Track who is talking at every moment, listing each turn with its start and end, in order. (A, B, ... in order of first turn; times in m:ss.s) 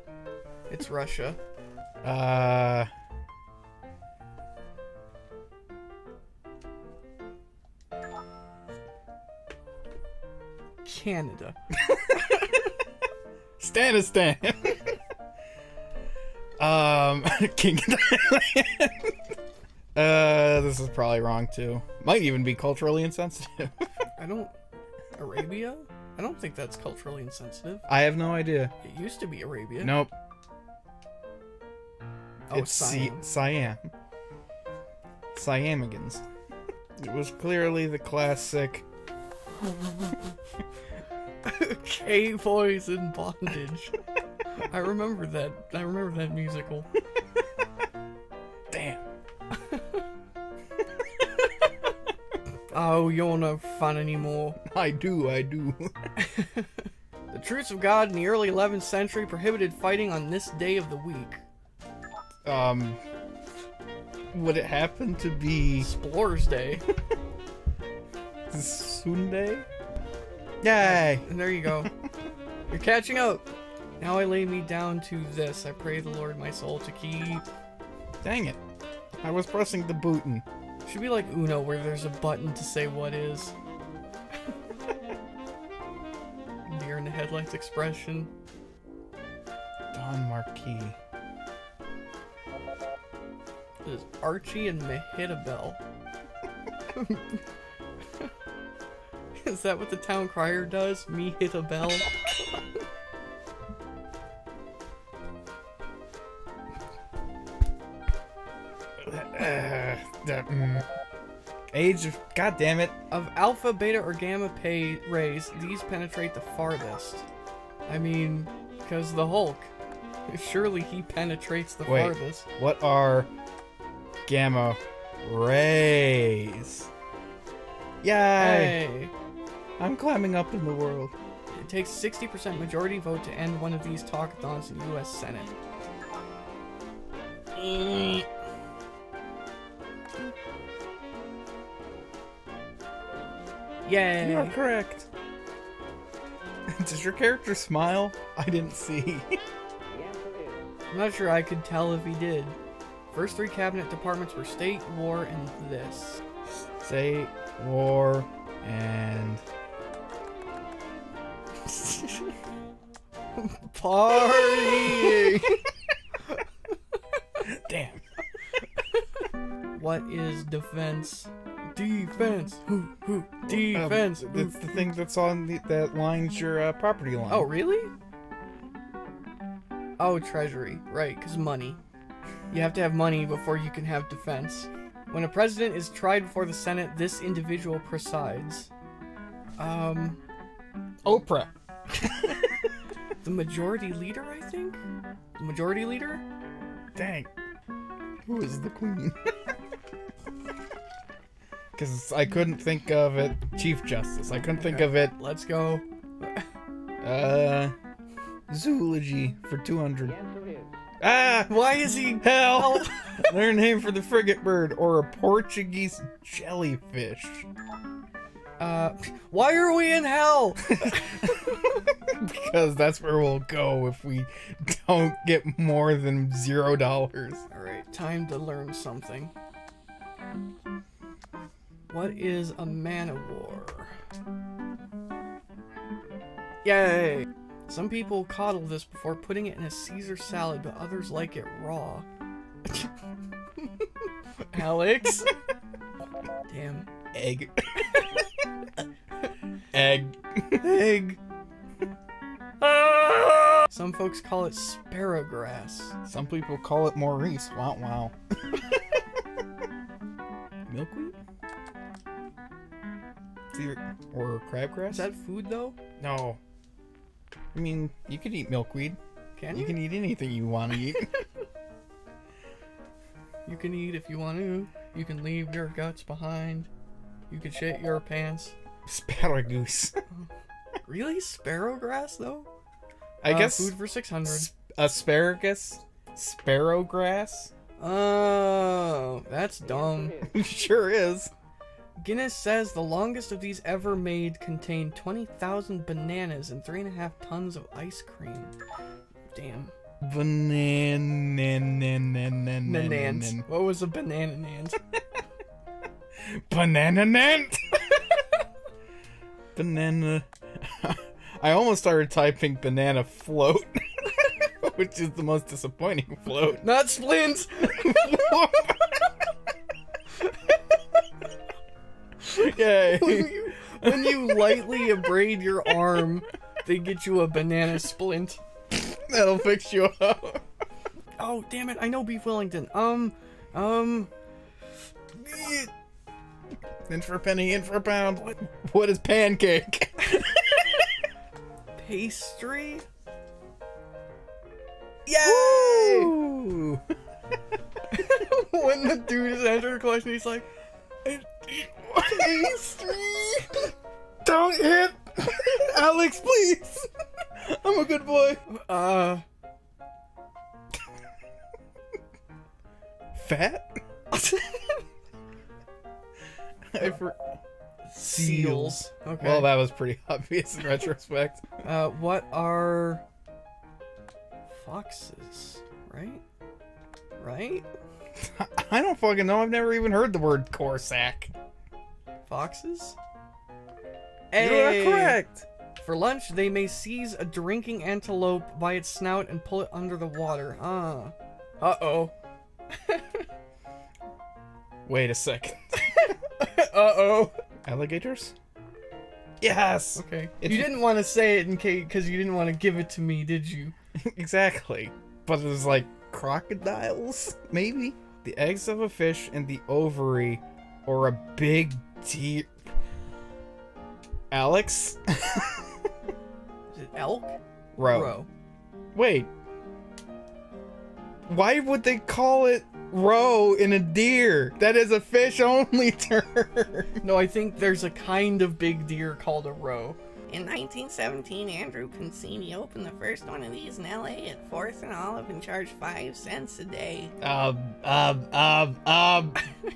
0:00.7-0:01.4 A
0:02.0-0:02.9 B
0:10.8-0:12.6 A
0:13.6-0:15.0 B
0:16.6-0:19.1 B
0:19.9-0:23.9 B
0:24.2-0:24.5 A
0:25.2-0:27.8 A
0:27.9-0:28.7 B
0:28.8-0:29.9 A
0:29.8-0:30.1 B
0:32.5-0:33.2 A
0:32.5-0:33.9 B
0:35.3-0:36.2 B
0:37.0-0:38.8 B
0:41.4-0:44.0 A
0:44.6-0:46.9 A
0:48.7-0:49.0 B
0:52.7-0:54.6 A
0:54.6-0:55.9 B
0:56.2-1:01.4 A
1:02.4-1:03.0 B
1:04.3-1:05.9 B
1:05.8-1:06.8 A
1:08.5-1:09.6 B
1:10.6-1:11.2 B
1:10.8-1:11.9 A
1:12.7-1:13.4 A
1:14.0-1:17.4 A
1:18.2-1:18.6 B
1:19.2-1:20.4 B
1:20.8-1:23.5 A
1:26.6-1:28.3 A
1:29.9-1:31.0 B
1:33.8-1:35.8 A
1:36.9-1:37.4 A
1:39.4-1:42.1 A
1:49.0-1:50.8 B
1:51.7-1:52.9 B
1:53.1-1:57.2 A
1:57.9-1:59.7 A
2:00.3-2:02.4 A
2:01.8-2:03.3 B
2:04.3-2:06.9 B
2:08.0-2:08.8 B
2:08.4-2:09.1 A
2:09.8-2:11.1 B
2:11.5-2:15.6 A
2:17.6-2:18.2 A
2:23.8-2:24.6 A
2:24.2-2:25.1 B
2:26.7-2:29.4 B
2:30.9-2:32.6 A
2:33.1-2:36.2 A
2:36.8-2:39.4 B
2:41.7-2:42.2 A
2:43.4-2:45.6 A
2:44.2-2:45.5 B
2:47.4-2:48.0 B
2:49.7-2:54.7 A
2:53.5-2:57.5 B
2:57.3-2:57.9 A
3:00.0-3:01.8 A
3:02.5-3:08.7 A
3:09.6-3:10.2 A
3:11.0-3:11.5 B
3:13.2-3:14.8 A
3:15.4-3:16.2 A
3:16.9-3:17.3 B
3:18.2-3:19.3 B
3:21.8-3:25.1 B
3:24.4-3:26.4 A
3:27.0-3:27.7 B
3:28.5-3:30.2 B
3:31.0-3:31.7 B
3:31.5-3:33.2 A
3:32.2-3:37.4 B
3:38.6-3:41.4 A
3:40.8-3:41.1 B
3:42.0-3:47.4 B
3:47.5-3:49.3 A
3:51.9-3:53.9 A
3:56.6-4:02.0 A
4:02.6-4:02.9 A
4:03.6-4:05.4 A
4:06.5-4:06.9 A
4:07.1-4:08.1 B
4:09.7-4:11.2 B
4:12.6-4:13.6 B
4:13.7-4:15.9 A
4:16.0-4:19.0 B
4:20.7-4:21.2 B
4:23.5-4:25.0 B
4:24.9-4:25.8 A
4:26.0-4:26.4 B
4:27.5-4:29.0 B
4:29.4-4:29.8 A
4:29.5-4:31.1 B
4:33.4-4:36.7 A
4:37.3-4:38.5 A
4:38.8-4:40.0 B
4:40.8-4:42.5 A
4:43.2-4:47.5 B
4:43.2-4:44.5 A
4:47.8-4:50.2 A
4:50.2-4:51.3 B
4:52.0-4:58.5 A
4:59.3-4:59.7 A
5:00.0-5:03.4 B
5:02.6-5:04.8 A
5:06.2-5:08.1 B
5:09.5-5:14.0 B
5:14.6-5:16.6 B
5:16.6-5:18.2 A
5:17.6-5:18.8 B
5:22.2-5:25.0 B
5:22.8-5:28.4 A
5:28.7-5:30.4 B
5:31.2-5:34.1 A
5:35.2-5:35.7 A
5:36.9-5:40.7 B
5:41.8-5:42.8 A
5:45.0-5:46.8 B
5:45.2-5:46.1 A
5:47.9-5:50.5 A
5:51.0-5:53.3 B
5:52.0-5:53.7 A
5:54.2-5:58.4 B
5:58.5-5:59.2 A
6:03.1-6:03.8 B
6:04.1-6:04.6 A
6:06.7-6:07.2 B
6:07.8-6:09.5 A
6:08.0-6:11.5 B
6:11.6-6:13.0 A
6:14.5-6:16.2 A
6:17.2-6:17.6 A
6:18.2-6:21.3 B
6:22.3-6:23.0 A
6:24.3-6:25.2 A
6:24.4-6:25.4 B
6:25.8-6:32.1 A
6:32.8-6:33.2 A
6:34.8-6:35.6 B
6:35.8-6:37.3 A
6:37.6-6:38.3 B
6:39.4-6:40.8 B
6:40.0-6:43.7 A
6:44.0-6:52.5 B
6:54.3-6:55.7 B
6:56.7-6:58.3 A
6:57.8-6:58.1 B
6:58.9-6:59.3 B
7:01.3-7:07.0 B
7:07.0-7:10.0 A
7:10.3-7:17.1 C
7:17.2-7:19.4 B